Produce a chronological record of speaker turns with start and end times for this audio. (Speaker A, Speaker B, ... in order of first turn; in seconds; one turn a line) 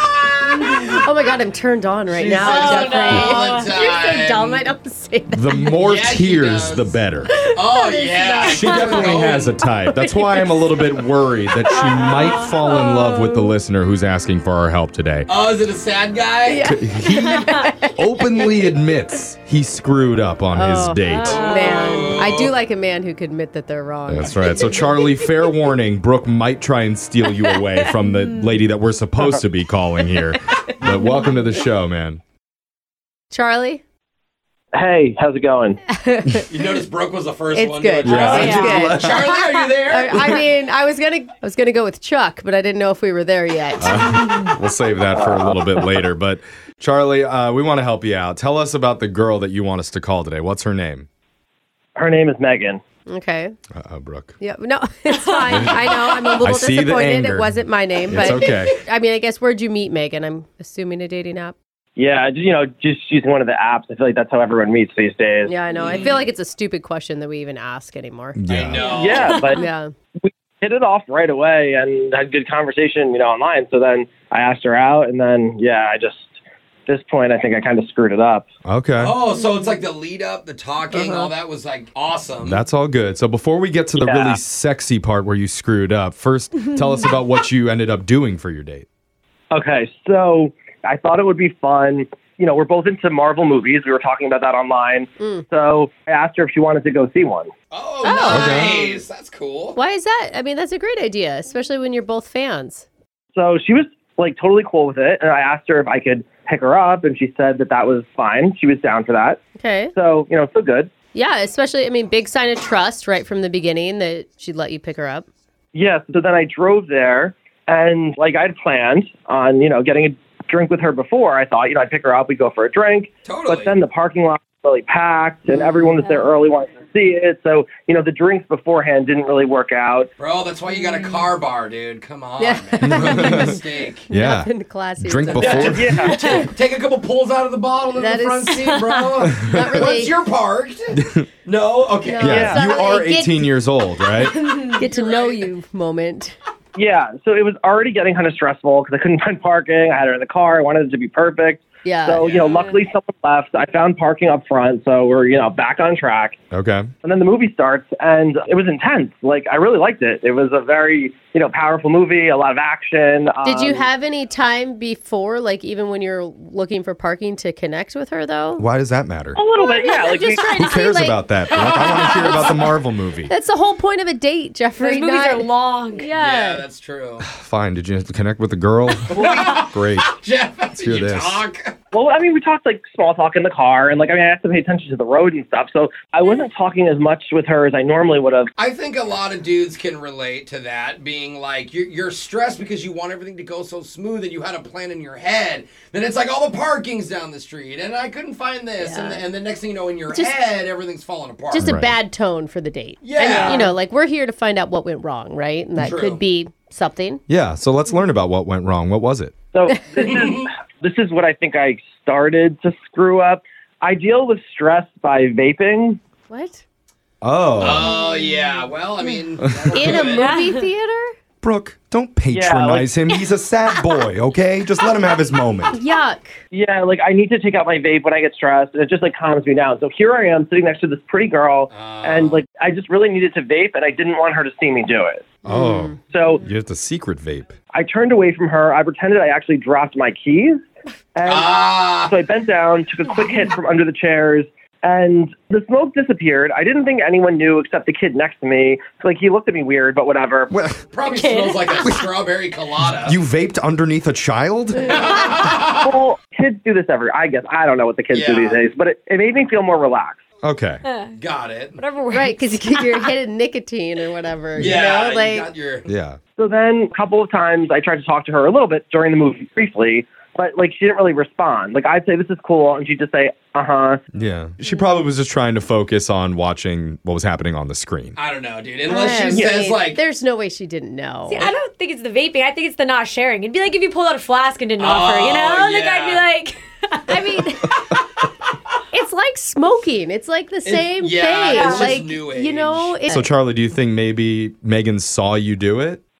Speaker A: 0.2-1.0
Speaker B: 0.6-5.8
Speaker A: 2.1-4.7
Speaker C: 2.5-3.7
Speaker D: 3.0-3.4
Speaker D: 5.3-7.3
Speaker A: 5.8-7.0
Speaker B: 7.3-9.1
Speaker A: 7.5-9.5
Speaker D: 8.4-15.3
Speaker C: 11.7-12.5
Speaker B: 11.8-12.5
Speaker A: 15.3-16.7
Speaker B: 16.4-18.4
Speaker D: 16.6-21.5
Speaker B: 20.5-24.8
Speaker C: 21.1-22.1
Speaker A: 21.2-22.5
Speaker D: 24.1-32.2
Speaker C: 27.5-28.6
Speaker B: 30.3-31.0
Speaker B: 33.3-33.8
Speaker E: 34.7-35.8
Speaker B: 35.9-36.5
Speaker A: 36.5-40.4
Speaker B: 37.5-44.5
Speaker D: 38.0-39.3
Speaker C: 38.3-38.8
Speaker D: 43.8-51.1
Speaker E: 45.1-45.5
Speaker E: 52.0-52.8
Speaker B: 53.1-53.5
Speaker D: 53.7-54.4
Speaker B: 54.4-61.5
Speaker C: 55.3-55.6
Speaker D: 55.5-55.8
Speaker D: 56.4-57.6
Speaker D: 58.1-58.7
Speaker E: 62.0-65.5
Speaker B: 65.5-68.4
Speaker A: 65.8-66.2
Speaker D: 68.3-68.8
Speaker A: 68.5-69.4
Speaker E: 68.8-69.6
Speaker B: 68.9-69.9
Speaker C: 69.0-69.6
Speaker E: 70.2-78.4
Speaker D: 78.6-79.2
Speaker A: 79.0-82.6
Speaker D: 82.4-88.8
Speaker E: 84.0-84.4
Speaker E: 89.5-97.5
Speaker B: 95.2-95.5
Speaker A: 97.7-99.8
Speaker B: 98.0-99.0
Speaker D: 98.3-98.7
Speaker B: 99.7-102.8
Speaker E: 103.3-109.4
Speaker B: 109.6-109.9
Speaker E: 109.9-110.9
Speaker B: 111.1-115.3
Speaker E: 115.7-130.1
Speaker A: 123.2-123.7
Speaker A: 130.2-134.1
Speaker B: 132.4-135.8
Speaker D: 132.8-133.6
Speaker D: 134.1-136.1
Speaker A: 135.3-142.5
Speaker E: 135.6-136.2
Speaker C: 136.0-136.4
Speaker B: 137.9-140.2
Speaker C: 138.7-139.0
Speaker D: 140.9-141.3
Speaker B: 142.0-143.5
Speaker D: 142.2-144.3
Speaker E: 142.2-142.6
Speaker C: 144.3-145.3
Speaker B: 144.6-146.3
Speaker E: 146.8-156.4
Speaker B: 151.8-152.2
Speaker A: 152.2-152.6
Speaker C: 152.4-152.8
Speaker D: 156.5-156.9
Speaker E: 157.0-163.9
Speaker B: 163.4-168.6
Speaker D: 168.6-169.4
Speaker E: 169.3-170.5
Speaker B: 169.6-172.5
Speaker D: 170.6-173.3
Speaker A: 171.5-172.6
Speaker B: 173.3-176.7
Speaker C: 174.8-176.1
Speaker A: 176.1-177.3
Speaker D: 177.2-180.1
Speaker A: 179.1-181.8
Speaker D: 180.8-181.4
Speaker E: 181.9-188.5
Speaker A: 188.6-201.8
Speaker B: 198.8-199.2
Speaker B: 200.1-200.4
Speaker B: 201.5-207.2
Speaker D: 201.6-202.0
Speaker A: 203.0-203.7
Speaker A: 205.8-206.2
Speaker D: 207.3-209.3
Speaker E: 209.5-216.0
Speaker A: 210.0-210.4
Speaker B: 216.3-216.6
Speaker D: 217.2-217.9
Speaker A: 217.6-220.4
Speaker B: 217.7-219.2
Speaker D: 219.4-219.8
Speaker B: 219.7-221.1
Speaker C: 220.1-220.6
Speaker D: 221.4-225.7
Speaker E: 222.3-222.9
Speaker B: 225.7-226.3
Speaker E: 226.5-235.3
Speaker A: 231.7-232.4
Speaker D: 235.4-237.6
Speaker B: 235.4-236.0
Speaker E: 236.1-236.4
Speaker E: 237.7-240.6
Speaker E: 241.1-250.5
Speaker A: 241.2-242.1
Speaker D: 250.5-250.8
Speaker A: 250.9-253.2
Speaker C: 251.0-252.0
Speaker D: 253.0-255.0
Speaker A: 254.8-255.9
Speaker E: 255.8-260.2
Speaker A: 258.1-258.6
Speaker D: 260.4-260.8
Speaker C: 260.8-261.1
Speaker A: 261.2-261.8
Speaker C: 261.8-263.1
Speaker B: 262.1-265.5
Speaker A: 264.5-265.9
Speaker D: 265.9-266.2
Speaker E: 266.4-274.0
Speaker D: 274.1-278.2
Speaker A: 278.1-280.0
Speaker B: 278.9-281.5
Speaker C: 281.3-287.8
Speaker A: 284.8-286.2
Speaker B: 287.1-287.8
Speaker B: 288.9-293.3
Speaker A: 290.6-293.0
Speaker C: 291.5-291.9
Speaker D: 293.1-296.0